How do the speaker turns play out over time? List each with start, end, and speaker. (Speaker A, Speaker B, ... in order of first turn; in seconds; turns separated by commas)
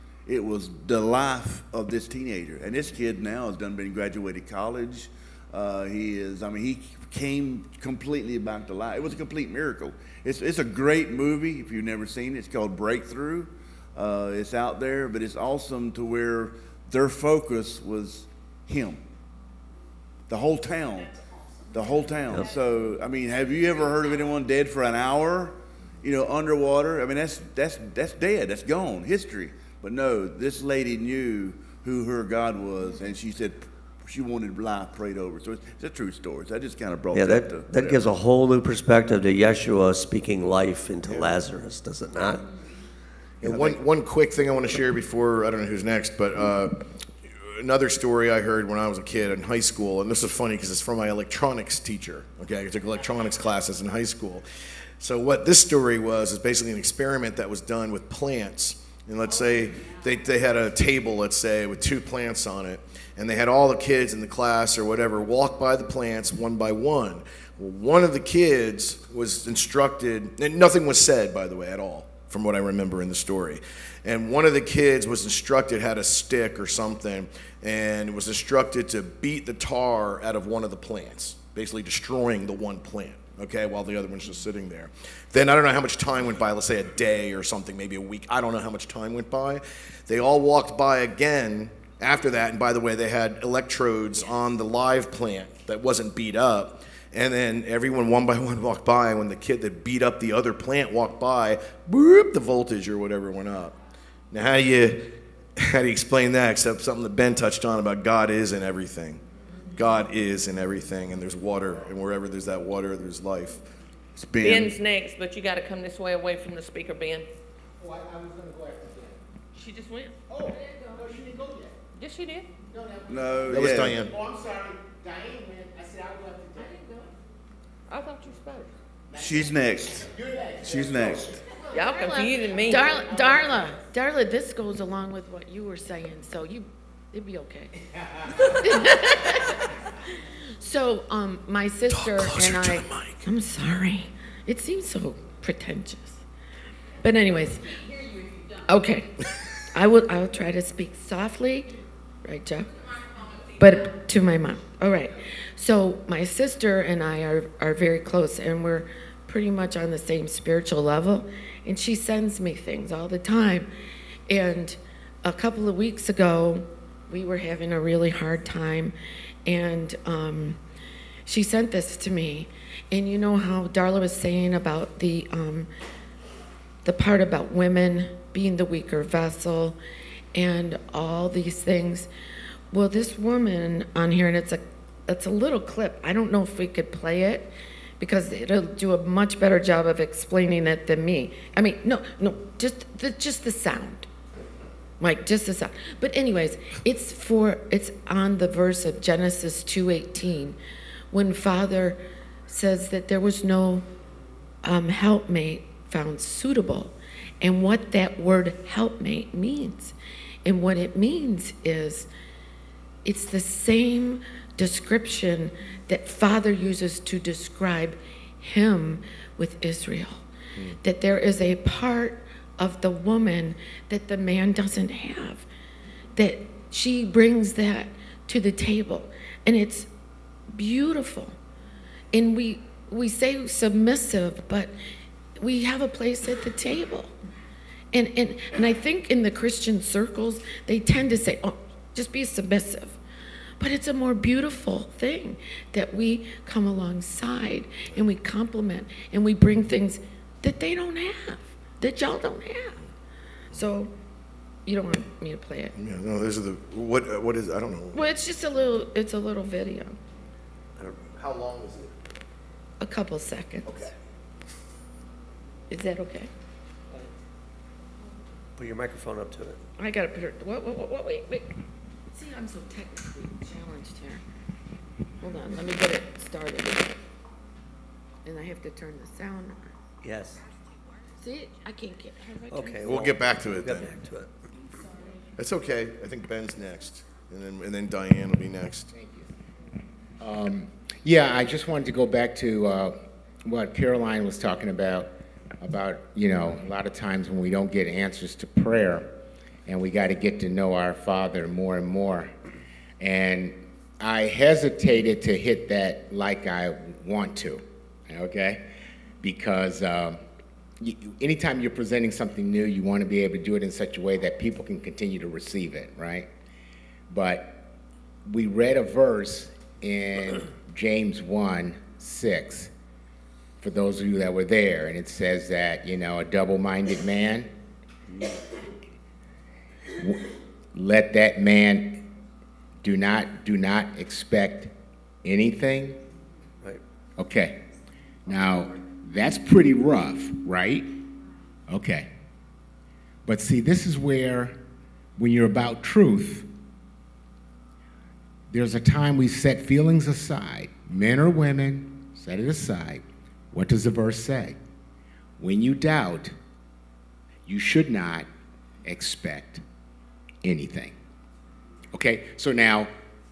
Speaker A: 0.3-19.0, Speaker A: 20.3-21.2, Speaker A: 21.7-38.1, Speaker B: 37.1-42.5, Speaker B: 43.4-43.8, Speaker C: 43.4-46.9, Speaker C: 47.6-54.5, Speaker C: 55.0-103.8, Speaker C: 104.3-109.2, Speaker C: 109.7-113.7, Speaker A: 114.2-114.8, Speaker D: 114.4-117.3, Speaker E: 117.8-119.2, Speaker D: 119.5-120.2, Speaker E: 120.3-121.7, Speaker D: 121.9-122.5, Speaker E: 122.7-127.1, Speaker A: 123.1-124.1, Speaker C: 123.5-124.1, Speaker D: 127.9-128.7, Speaker E: 129.1-131.4, Speaker A: 129.2-130.1, Speaker A: 130.6-131.4, Speaker D: 131.7-133.1, Speaker F: 131.9-137.8, Speaker E: 133.0-133.4, Speaker F: 138.5-139.6, Speaker F: 140.6-146.2, Speaker C: 141.9-143.2, Speaker F: 147.0-147.8, Speaker F: 148.7-149.2, Speaker F: 149.7-152.7, Speaker F: 153.6-163.7, Speaker F: 164.3-168.9, Speaker F: 169.5-170.6, Speaker F: 171.3-175.7, Speaker F: 176.8-179.8, Speaker F: 180.3-182.1, Speaker F: 182.7-194.1, Speaker F: 195.0-200.6, Speaker F: 201.1-203.9, Speaker F: 204.6-212.1, Speaker F: 213.1-220.3, Speaker F: 220.8-225.5, Speaker F: 226.2-229.9, Speaker F: 230.5-231.4, Speaker F: 232.1-234.7, Speaker F: 235.4-237.2, Speaker F: 237.9-243.0, Speaker F: 243.6-252.8, Speaker F: 253.5-253.9, Speaker F: 254.7-255.7, Speaker C: 255.8-258.1, Speaker F: 257.9-260.0, Speaker C: 261.2-261.9, Speaker F: 262.8-263.9, Speaker C: 263.6-263.9, Speaker F: 265.7-266.3, Speaker B: 268.6-269.6, Speaker F: 269.8-271.5, Speaker F: 272.1-274.2, Speaker F: 275.2-277.0, Speaker F: 278.2-279.8, Speaker B: 280.0-280.4, Speaker F: 281.2-282.8, Speaker B: 282.5-284.3, Speaker C: 282.8-283.9, Speaker C: 285.4-288.9, Speaker E: 288.9-289.3, Speaker E: 290.2-295.1, Speaker E: 295.6-299.1, Speaker E: 299.7-302.3, Speaker E: 303.0-308.7, Speaker E: 309.2-310.2, Speaker E: 310.8-316.3, Speaker E: 317.1-317.6, Speaker E: 318.3-322.7, Speaker E: 323.6-327.5, Speaker E: 330.0-332.0, Speaker E: 332.8-334.7, Speaker E: 335.2-336.0, Speaker E: 337.2-337.6, Speaker E: 338.3-340.9, Speaker E: 341.7-342.1, Speaker E: 343.3-344.6, Speaker E: 345.2-346.5, Speaker E: 348.5-354.6, Speaker E: 355.4-356.3, Speaker E: 357.5-358.3, Speaker E: 358.8-359.6, Speaker E: 360.4-361.0, Speaker E: 361.9-362.9